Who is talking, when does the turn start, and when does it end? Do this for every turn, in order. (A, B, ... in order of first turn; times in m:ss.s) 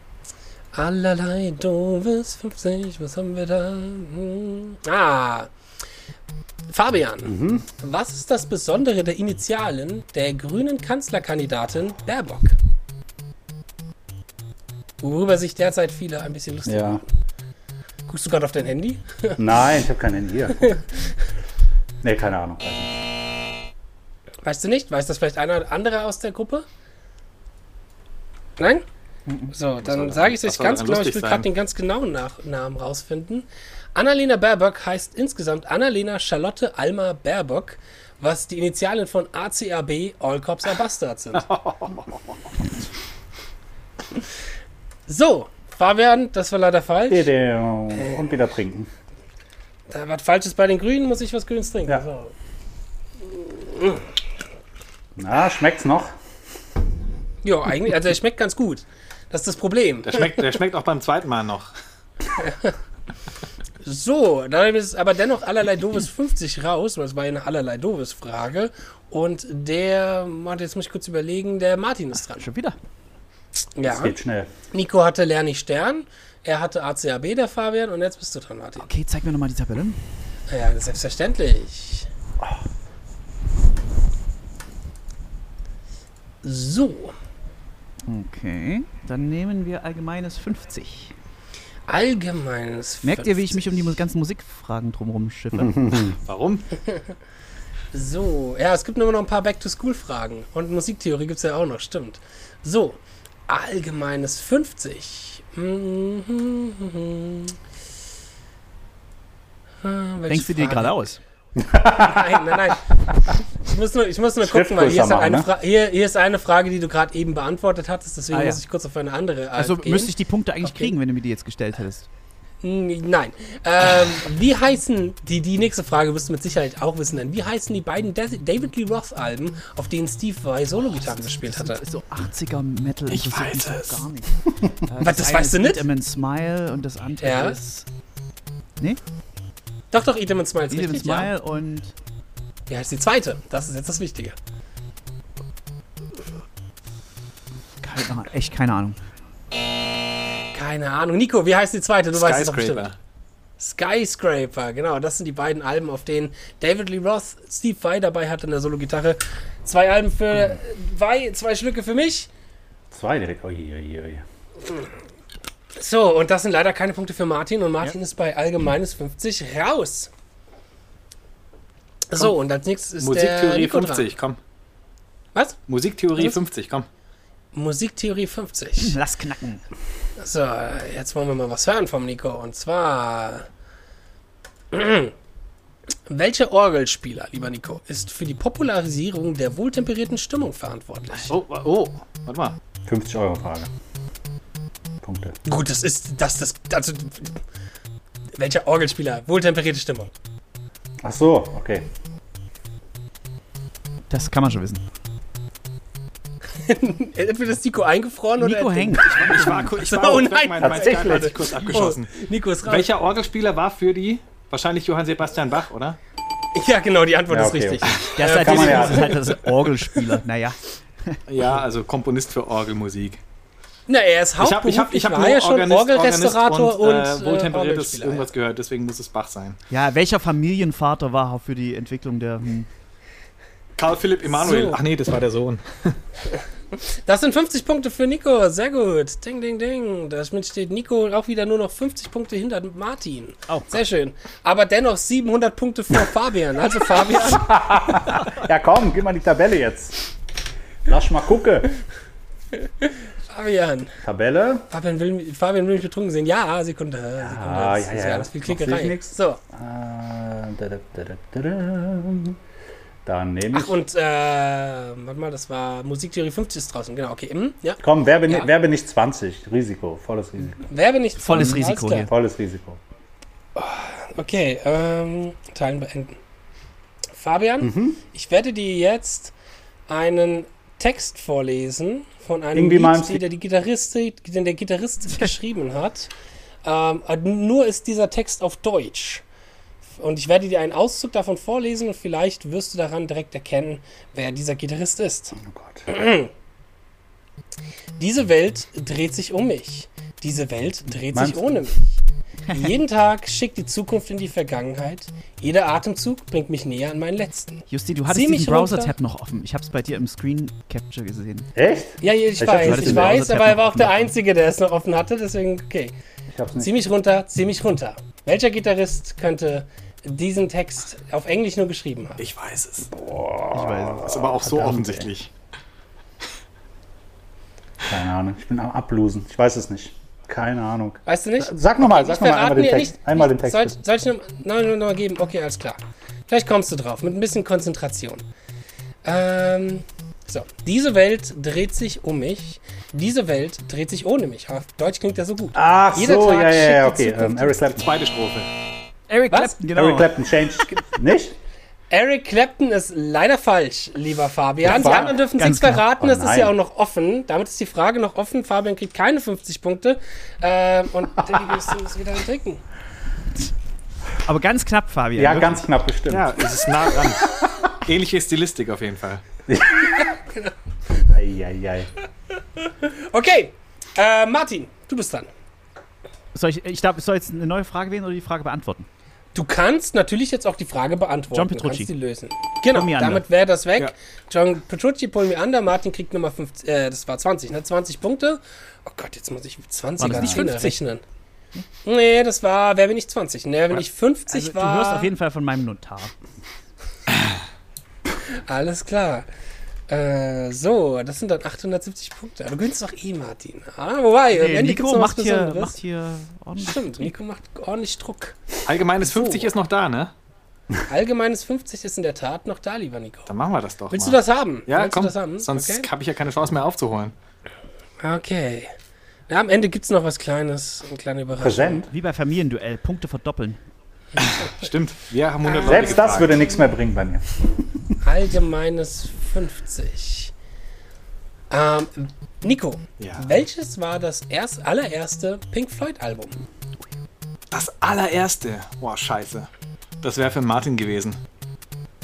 0:00.7-0:05.5 A
0:06.7-0:12.6 A
0:07.2-0:07.6 B
0:15.0-0:17.0 A
0:16.6-0:17.0 B
0:18.1-0:19.4 A
0:19.4-0:20.8 B
0:22.0-0:23.0 B
0:24.4-0:26.6 A
0:28.6-0:28.8 A
0:29.5-0:41.4 A
0:29.8-0:31.4 C
0:41.4-0:42.3 C
0:45.1-0:47.3 A
0:47.1-0:48.9 B
0:49.9-0:52.3 A
0:53.3-0:54.0 A
0:55.2-0:56.1 B
0:57.4-1:00.3 A
1:00.0-1:01.7 C
1:02.4-1:02.7 A
1:03.8-1:12.4 A
1:12.3-1:12.8 D
1:13.8-1:14.2 A
1:13.8-1:14.5 B
1:14.7-1:18.9 A
1:18.8-1:20.0 D
1:20.5-1:22.1 A
1:26.4-1:27.1 A
1:28.1-1:31.1 D
1:31.9-1:33.6 A
1:33.0-1:36.1 D
1:35.6-1:36.1 B
1:36.2-1:36.7 C
1:37.9-1:47.6 A
1:49.8-1:51.0 A
1:50.3-1:51.2 D
1:51.6-1:52.6 B
1:51.9-1:52.9 A
1:53.6-2:00.1 A
1:54.4-1:55.5 B
1:58.3-1:58.6 D
1:59.6-2:02.1 D
2:00.6-2:00.9 A
2:02.6-2:11.8 A
2:10.9-2:17.8 D
2:13.1-2:14.1 C
2:15.0-2:15.8 A
2:17.2-2:17.6 A
2:19.9-2:21.3 A
2:20.7-2:21.9 D
2:22.7-2:24.4 A
2:27.8-2:29.0 D
2:30.5-2:32.9 A
2:32.1-2:33.0 C
2:33.6-2:42.3 A
2:42.9-2:44.2 B
2:45.7-2:50.1 A
2:52.1-2:54.1 A
2:53.0-2:54.4 C
2:55.7-2:56.9 C
2:57.5-2:59.0 A
2:58.8-2:59.6 D
3:00.2-3:03.5 A
3:04.7-3:05.1 A
3:06.1-3:11.3 A
3:11.3-3:12.6 C
3:12.8-3:13.7 B
3:15.0-3:15.3 B
3:15.4-3:17.4 A
3:18.3-3:20.1 A
3:21.0-3:21.9 B
3:24.1-3:24.8 D
3:26.6-3:32.9 A
3:28.4-3:29.9 D
3:29.1-3:32.1 C
3:30.6-3:31.3 B
3:32.6-3:36.0 C
3:36.5-3:40.0 A
3:37.3-3:39.1 B
3:38.1-3:41.2 D
3:41.3-3:43.2 C
3:43.9-3:48.3 A
3:44.4-3:49.6 C
3:49.7-3:52.7 D
3:53.8-3:56.0 C
3:54.3-3:54.8 A
3:57.0-4:07.5 A
4:07.3-4:10.0 B
4:10.8-4:11.7 B
4:12.8-4:14.0 A
4:14.0-4:14.7 B
4:14.7-4:19.4 A
4:17.2-4:22.4 B
4:23.0-4:23.8 B
4:23.5-4:28.5 A
4:27.8-4:30.7 B
4:30.7-4:32.1 A
4:31.2-4:32.1 D
4:31.3-4:32.8 B
4:33.6-4:36.2 A
4:37.1-4:39.3 A
4:37.6-4:38.0 B
4:39.9-4:46.1 A
4:42.5-4:43.2 B
4:46.6-4:49.2 A
4:50.0-4:55.4 A
4:55.4-4:56.0 B
4:55.9-4:56.3 A
4:58.0-5:08.9 A
5:01.1-5:01.6 B
5:07.7-5:11.5 D
5:11.5-5:13.3 B
5:12.0-5:15.9 A
5:12.5-5:14.1 D
5:16.3-5:16.8 B
5:16.6-5:22.2 A
5:22.2-5:22.9 C
5:23.0-5:25.1 B
5:23.5-5:24.1 D
5:24.0-5:25.3 C
5:27.9-5:33.8 B
5:31.0-5:38.2 A
5:39.0-5:47.8 A
5:45.5-5:47.9 B
5:47.8-5:48.5 C
5:49.1-5:50.1 D
5:49.3-5:49.6 A
5:49.7-5:51.4 B
5:51.9-6:02.6 A
5:54.6-5:55.2 B
5:54.7-5:55.9 D
5:56.0-5:56.5 B
6:04.2-6:05.6 D
6:05.2-6:06.4 B
6:06.1-6:09.2 C
6:09.5-6:10.1 B
6:09.9-6:10.5 A
6:11.1-6:11.9 B
6:12.6-6:15.3 A
6:16.3-6:18.9 D
6:19.3-6:31.0 A
6:21.3-6:21.9 D
6:22.7-6:23.2 D
6:30.0-6:30.8 D
6:30.1-6:30.4 B
6:31.8-6:35.1 A
6:34.3-6:36.1 D
6:38.4-6:39.2 A
6:39.9-6:45.7 A
6:44.3-6:47.1 D
6:46.6-6:48.4 A
6:48.6-6:50.1 C
6:49.0-6:49.5 A
6:50.9-6:53.3 A
6:53.3-6:57.1 C
6:53.9-6:55.9 A
6:58.0-6:58.7 A
6:59.3-7:01.8 A
7:01.4-7:01.9 B
7:01.9-7:03.6 D
7:04.2-7:06.4 C
7:05.4-7:06.4 A
7:05.6-7:07.9 B
7:08.0-7:10.3 A
7:11.5-7:16.4 A
7:13.0-7:13.3 C
7:17.5-7:19.5 C
7:20.0-7:21.2 C